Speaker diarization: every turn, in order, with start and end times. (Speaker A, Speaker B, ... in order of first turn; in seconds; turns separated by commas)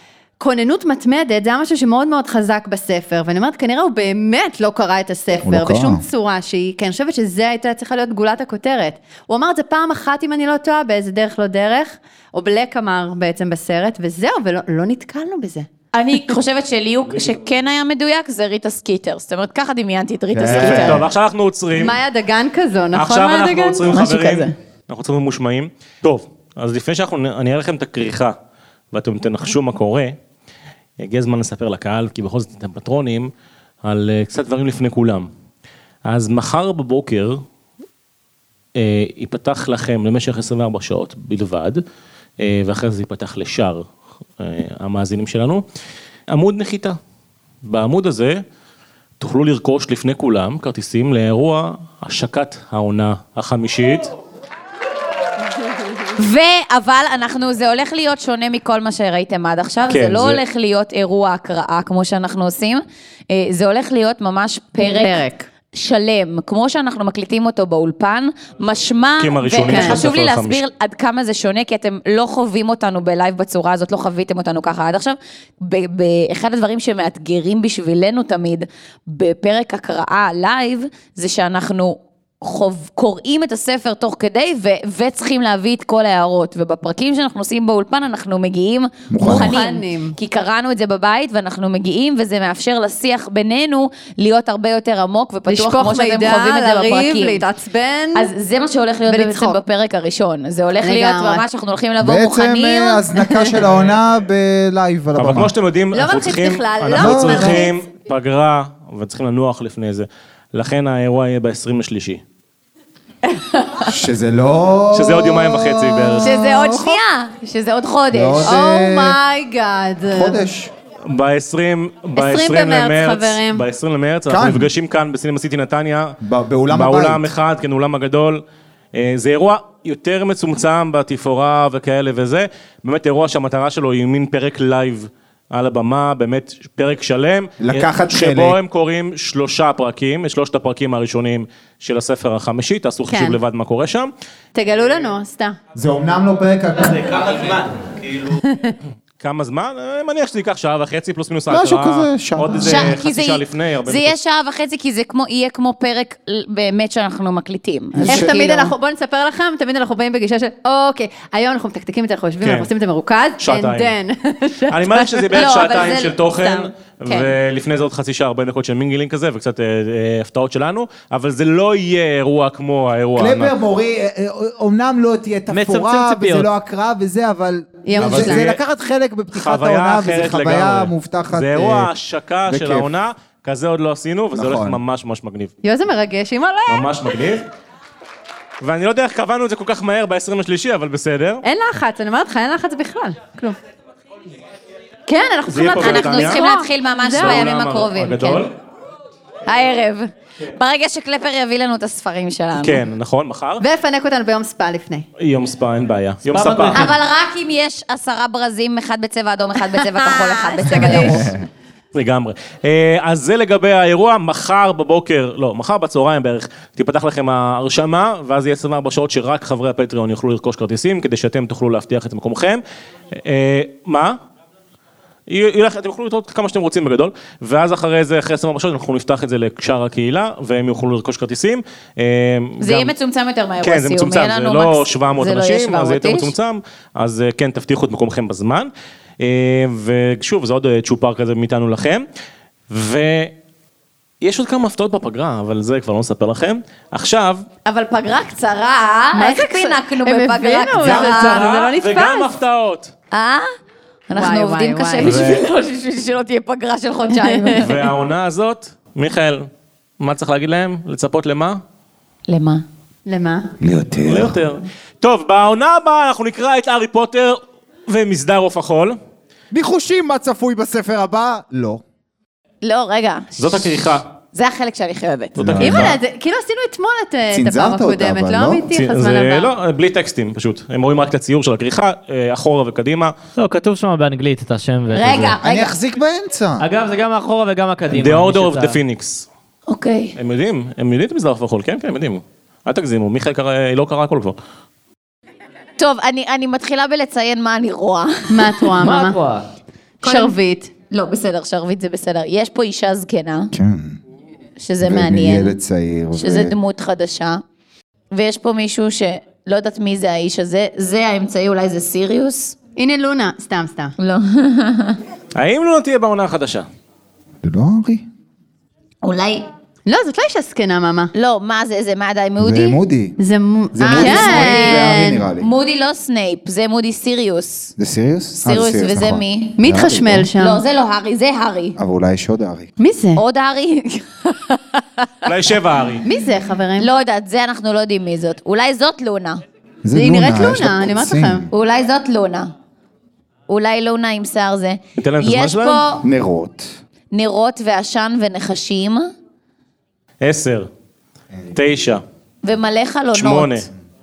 Speaker A: 0.4-15.7, Speaker B: 5.4-6.0, Speaker C: 15.9-21.0, Speaker B: 20.3-21.1, Speaker D: 20.5-22.0, Speaker A: 21.8-23.9, Speaker D: 22.9-28.4, Speaker C: 23.9-24.5, Speaker D: 28.9-30.1, Speaker D: 31.0-33.3, Speaker D: 33.8-35.3, Speaker D: 36.1-37.4, Speaker D: 38.8-41.8, Speaker D: 42.4-43.9, Speaker D: 44.4-45.6, Speaker D: 46.3-47.0, Speaker D: 47.6-48.4, Speaker D: 49.2-54.1, Speaker C: 56.2-97.5, Speaker D: 59.9-60.4, Speaker A: 64.8-65.5, Speaker D: 69.2-70.6, Speaker A: 69.7-70.0, Speaker B: 89.1-89.6, Speaker A: 89.2-90.2, Speaker A: 95.5-98.3, Speaker C: 98.2-103.1, Speaker A: 99.1-99.6, Speaker A: 100.8-101.4, Speaker B: 102.0-105.5, Speaker A: 103.3-103.6, Speaker D: 105.2-112.2, Speaker A: 105.9-107.8, Speaker B: 107.0-107.6, Speaker C: 113.3-113.9, Speaker B: 113.9-117.0, Speaker D: 114.9-116.4, Speaker C: 116.2-118.5, Speaker B: 118.1-119.2, Speaker A: 118.4-120.4, Speaker B: 120.1-120.7, Speaker D: 121.1-126.2, Speaker A: 122.2-123.7, Speaker B: 124.3-124.7, Speaker B: 126.2-127.3, Speaker D: 126.7-128.4, Speaker D: 128.9-144.1, Speaker B: 137.6-138.6, Speaker A: 143.1-143.4, Speaker A: 144.6-145.6, Speaker B: 145.8-147.7, Speaker A: 148.5-148.8, Speaker D: 149.2-154.2, Speaker B: 151.5-153.0, Speaker C: 152.6-158.7, Speaker B: 158.0-158.3, Speaker A: 158.0-167.2, Speaker D: 162.4-162.7, Speaker D: 163.4-163.9, Speaker D: 164.7-173.5, Speaker C: 165.3-166.1, Speaker B: 173.2-181.9, Speaker E: 175.5-176.5, Speaker A: 177.9-178.5, Speaker D: 178.0-178.6, Speaker D: 179.3-185.5, Speaker B: 182.5-182.9, Speaker B: 184.3-184.8, Speaker A: 185.6-186.9, Speaker D: 186.7-187.4, Speaker D: 188.6-191.4, Speaker A: 191.4-193.6, Speaker A: 195.1-197.4, Speaker D: 195.5-196.5, Speaker C: 195.8-198.5, Speaker D: 197.1-198.5, Speaker C: 199.5-202.8, Speaker D: 202.6-203.6, Speaker A: 203.6-205.1, Speaker D: 205.2-206.9, Speaker E: 206.3-206.9, Speaker C: 206.7-211.3, Speaker A: 209.8-211.3, Speaker B: 210.8-211.5, Speaker D: 211.9-224.2, Speaker D: 225.3-232.9, Speaker C: 232.6-236.3, Speaker D: 233.6-242.1, Speaker D: 242.7-243.3, Speaker D: 244.2-247.5, Speaker C: 247.7-251.5, Speaker A: 249.1-252.3, Speaker D: 250.8-252.9, Speaker C: 253.1-253.5, Speaker C: 254.1-257.7, Speaker A: 254.2-255.2, Speaker B: 255.0-255.4, Speaker D: 255.1-255.3, Speaker A: 257.2-257.8, Speaker D: 257.6-259.5, Speaker D: 260.0-261.6, Speaker C: 262.3-262.6, Speaker A: 263.1-263.5, Speaker B: 263.6-264.4, Speaker D: 264.1-269.0, Speaker B: 269.5-271.8, Speaker C: 272.6-273.7, Speaker D: 273.4-274.1, Speaker C: 274.3-275.4, Speaker D: 275.4-276.0, Speaker B: 275.4-276.0, Speaker A: 275.6-279.5, Speaker B: 277.3-278.7, Speaker D: 278.7-283.1, Speaker E: 283.4-285.4, Speaker C: 284.9-285.8, Speaker B: 285.4-286.6, Speaker E: 286.6-288.8, Speaker D: 287.9-289.3, Speaker C: 289.7-290.1, Speaker D: 290.2-294.4, Speaker C: 295.8-298.7, Speaker A: 298.3-299.2, Speaker E: 298.8-299.4, Speaker C: 300.0-300.4, Speaker A: 300.0-300.7, Speaker C: 300.9-303.5, Speaker B: 303.5-304.0, Speaker C: 304.6-305.6, Speaker B: 304.8-306.6, Speaker C: 306.1-307.4, Speaker C: 308.1-312.6, Speaker A: 312.8-313.9, Speaker C: 314.0-315.0, Speaker D: 315.4-316.7, Speaker B: 317.4-318.1, Speaker C: 319.0-319.5, Speaker A: 319.9-321.1, Speaker C: 321.1-322.8, Speaker B: 322.4-323.2, Speaker A: 323.2-325.2, Speaker B: 323.7-325.5, Speaker C: 323.8-327.7, Speaker B: 327.8-330.3, Speaker C: 328.4-331.8, Speaker A: 329.6-330.6, Speaker B: 331.8-332.7, Speaker A: 332.8-333.2, Speaker C: 333.2-335.1, Speaker D: 335.2-336.1, Speaker A: 336.1-336.9, Speaker C: 336.8-339.4, Speaker B: 339.8-341.5, Speaker A: 339.9-341.4, Speaker C: 341.5-342.5, Speaker C: 343.5-346.1, Speaker D: 345.0-345.9, Speaker B: 346.0-346.7, Speaker C: 347.1-349.1, Speaker D: 350.2-350.7, Speaker D: 351.5-352.0, Speaker C: 352.4-353.7, Speaker D: 353.1-353.7